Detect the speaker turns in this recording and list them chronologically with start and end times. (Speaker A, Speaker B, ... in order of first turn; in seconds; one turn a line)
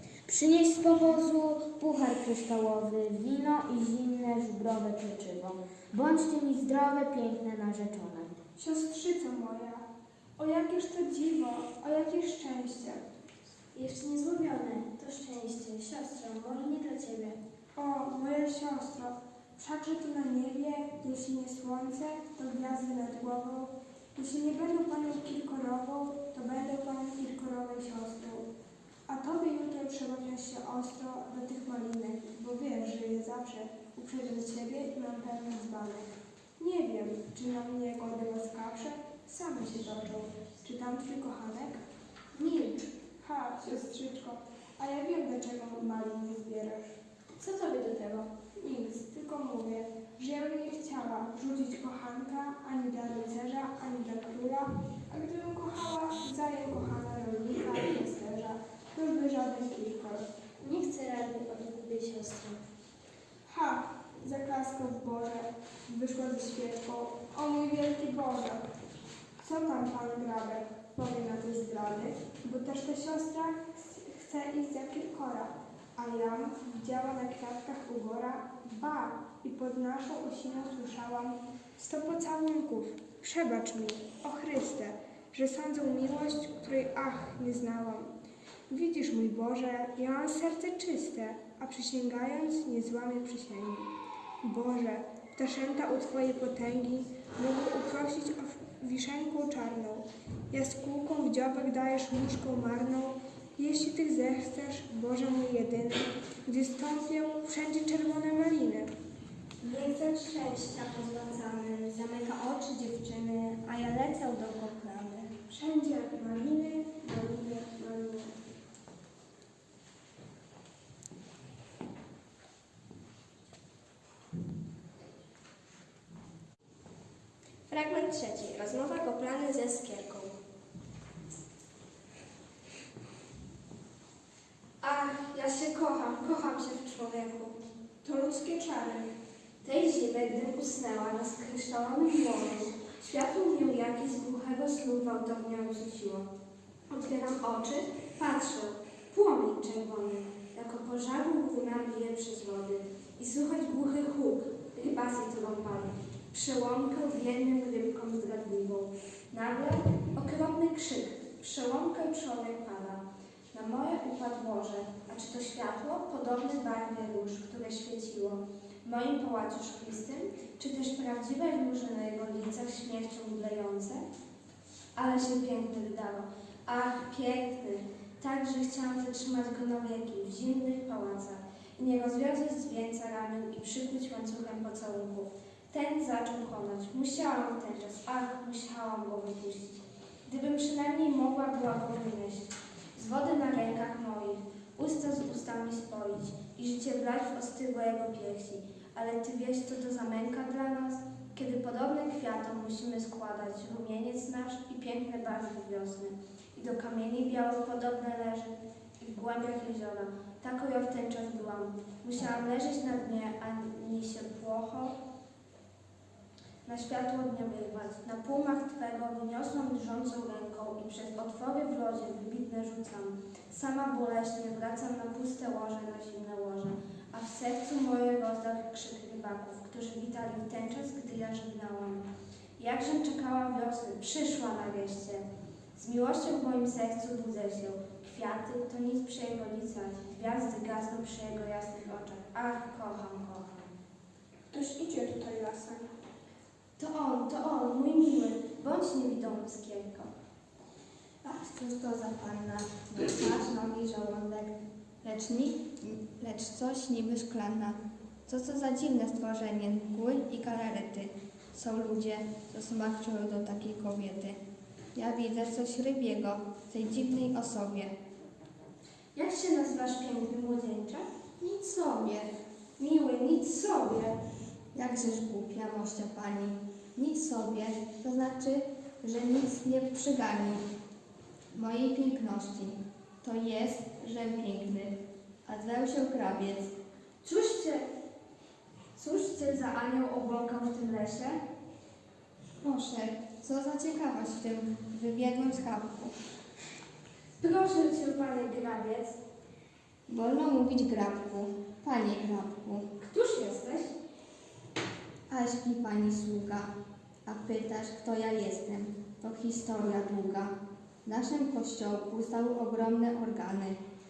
Speaker A: 0.2-8.4
Speaker B: 8.6-9.8
Speaker B: 10.4-13.0
Speaker C: 13.8-17.4
Speaker B: 17.7-28.5
Speaker B: 29.1-41.8
Speaker B: 43.2-46.9
Speaker C: 47.4-48.3
Speaker B: 48.6-60.2
Speaker C: 60.6-62.6
Speaker B: 63.5-68.6
Speaker B: 69.4-88.1
Speaker B: 88.7-93.9
Speaker B: 94.4-108.9
Speaker D: 109.6-115.3
Speaker B: 115.5-118.3
Speaker E: 127.7-130.3
Speaker D: 134.8-137.6
Speaker B: 138.0-139.1
Speaker D: 139.6-146.3
Speaker D: 146.9-174.0
Speaker D: 174.9-214.9
Speaker D: 216.6-232.1
Speaker D: 232.6-235.2
Speaker D: 235.8-243.7
Speaker B: 244.5-245.9
Speaker D: 246.8-250.1
Speaker F: 251.2-264.4
Speaker F: 264.9-267.9
Speaker D: 269.1-271.1
Speaker F: 271.4-272.3
Speaker D: 272.8-274.2
Speaker F: 274.7-280.6
Speaker F: 281.5-286.7
Speaker D: 287.2-287.9
Speaker D: 288.9-291.4
Speaker F: 292.6-296.1
Speaker D: 297.4-299.2
Speaker F: 300.1-302.9
Speaker D: 303.0-303.9
Speaker F: 305.3-306.7
Speaker F: 307.3-310.5
Speaker F: 311.0-313.8